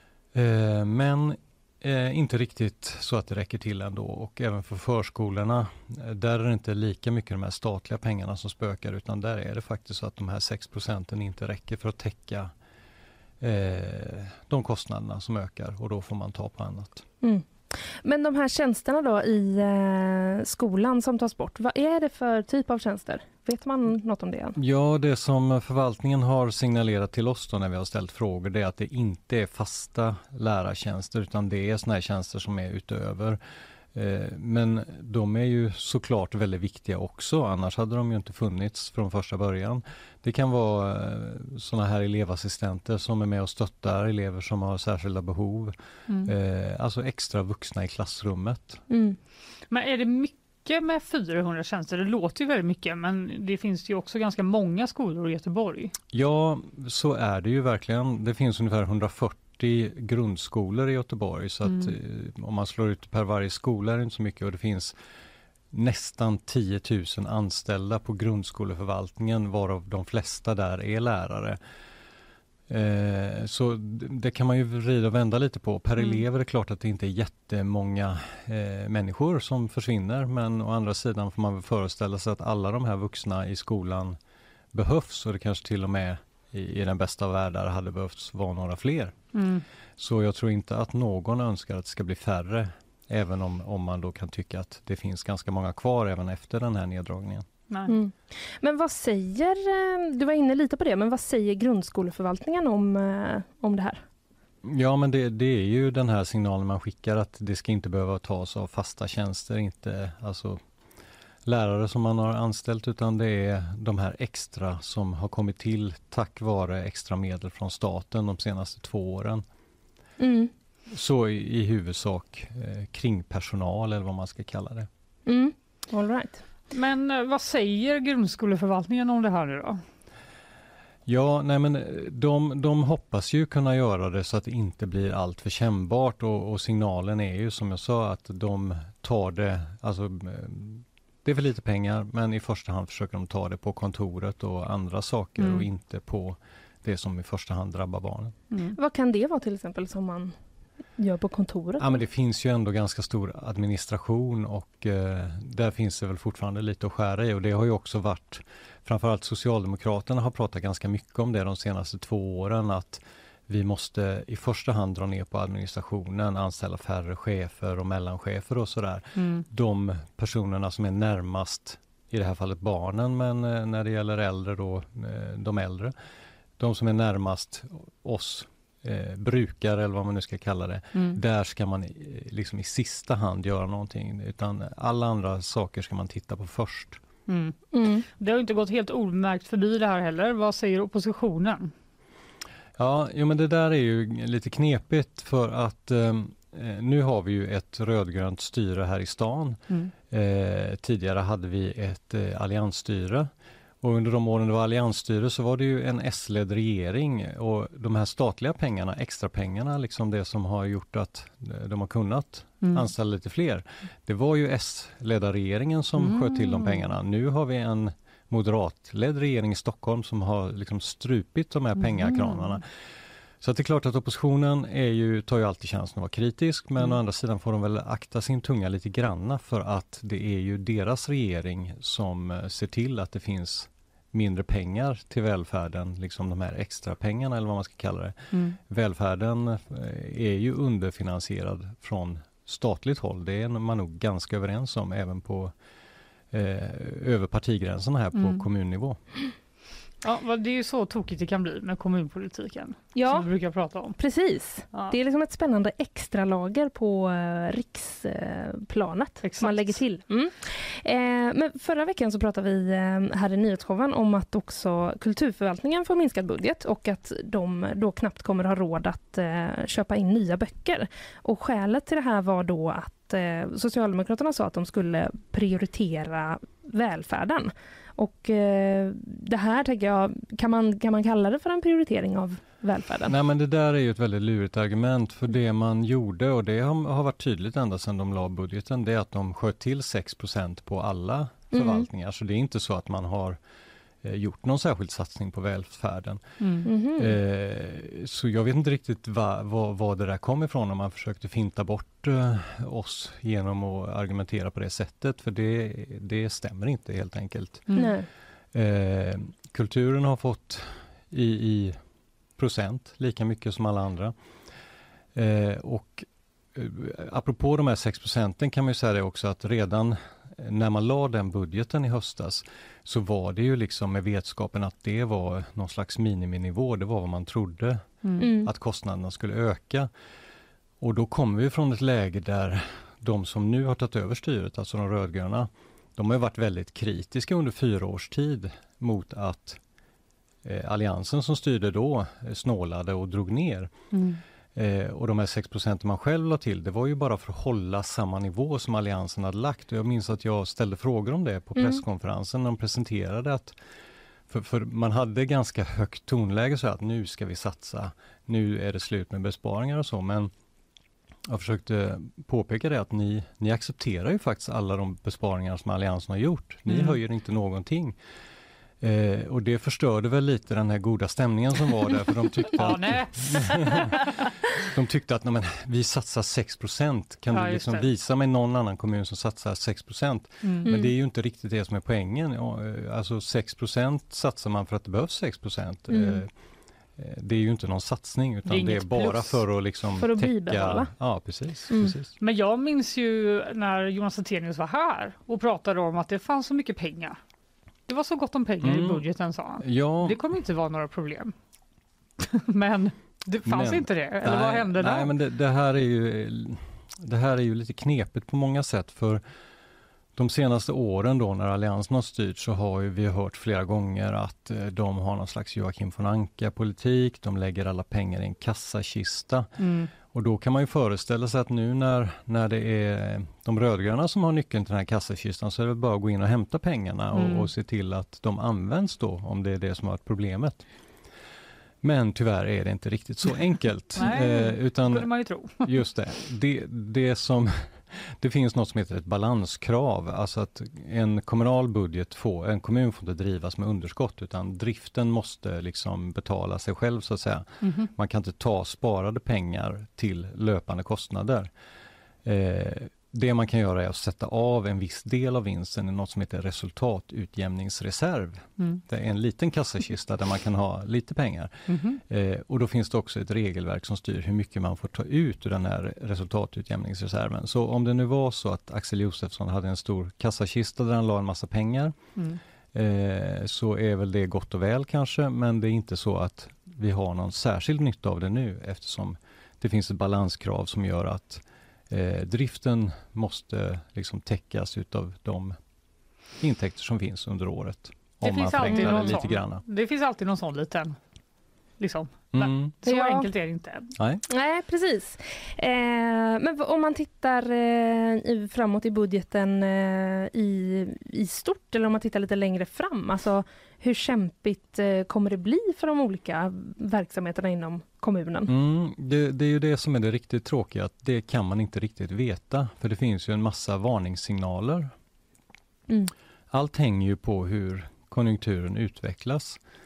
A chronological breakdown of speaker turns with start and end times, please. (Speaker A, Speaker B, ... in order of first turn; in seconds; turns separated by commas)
Speaker A: 0.3-12.5, Speaker A: 13.4-17.1, Speaker B: 17.2-24.6, Speaker A: 24.6-33.4, Speaker A: 34.0-48.8, Speaker B: 48.9-49.2, Speaker C: 49.7-55.9, Speaker A: 56.1-65.0, Speaker C: 61.6-61.9, Speaker A: 65.7-71.6, Speaker A: 72.7-84.2, Speaker C: 76.0-76.2, Speaker A: 84.7-89.2, Speaker C: 89.3-89.6, Speaker A: 90.0-97.5, Speaker B: 97.9-104.0, Speaker A: 104.6-110.6, Speaker A: 111.5-119.4, Speaker B: 120.2-120.5, Speaker A: 120.9-124.9, Speaker B: 125.3-126.4, Speaker C: 126.7-129.8, Speaker A: 131.1-148.3, Speaker C: 145.4-145.7, Speaker C: 148.5-148.8, Speaker B: 148.8-150.3, Speaker B: 151.0-152.0, Speaker A: 151.8-175.9, Speaker C: 169.2-169.5, Speaker A: 176.6-187.0, Speaker C: 180.9-181.2, Speaker C: 187.3-187.6, Speaker B: 187.7-188.1, Speaker C: 188.2-191.7, Speaker A: 192.8-203.3, Speaker A: 203.8-222.7, Speaker C: 212.6-212.9, Speaker C: 216.0-216.9, Speaker C: 221.8-222.6, Speaker A: 223.4-245.5, Speaker C: 238.3-238.6, Speaker A: 246.3-249.0, Speaker C: 248.1-248.5, Speaker C: 250.0-254.0, Speaker B: 252.9-253.3, Speaker B: 254.0-283.1, Speaker C: 259.2-259.8, Speaker A: 283.1-293.4, Speaker B: 291.5-291.9, Speaker A: 294.0-296.2, Speaker C: 296.4-296.7, Speaker B: 296.6-297.2, Speaker A: 297.0-307.7, Speaker B: 307.7-308.1, Speaker A: 308.5-311.8, Speaker A: 312.4-314.1, Speaker A: 315.1-329.9, Speaker B: 328.2-328.5, Speaker A: 330.8-339.6, Speaker A: 340.4-343.7, Speaker C: 343.9-344.2, Speaker A: 344.6-353.5, Speaker B: 351.6-351.8, Speaker A: 354.3-360.3, Speaker A: 361.3-367.9, Speaker C: 366.7-367.0, Speaker A: 368.8-386.3, Speaker C: 372.5-374.1, Speaker C: 377.3-377.9, Speaker C: 380.4-380.7, Speaker B: 380.7-380.9, Speaker B: 385.9-386.2, Speaker A: 387.0-392.1, Speaker C: 388.5-389.4, Speaker B: 390.0-390.9, Speaker C: 392.2-397.2, Speaker C: 397.9-401.3, Speaker A: 398.6-399.0, Speaker A: 399.6-400.2, Speaker C: 402.2-405.1, Speaker A: 403.4-409.2, Speaker A: 410.1-419.5, Speaker C: 419.6-419.9, Speaker A: 420.1-430.6, Speaker C: 427.1-427.5, Speaker A: 431.8-435.1, Speaker C: 434.0-435.8, Speaker A: 435.6-451.5, Speaker C: 447.6-447.9, Speaker A: 452.2-471.9, Speaker C: 461.7-462.0, Speaker A: 472.7-485.6, Speaker A: 486.4-489.6, Speaker C: 488.2-491.0, Speaker B: 488.7-489.0, Speaker C: 491.8-493.9, Speaker A: 492.3-492.8, Speaker B: 492.8-493.3, Speaker A: 494.0-494.2, Speaker B: 494.3-508.5, Speaker A: 508.5-514.9, Speaker A: 516.5-519.6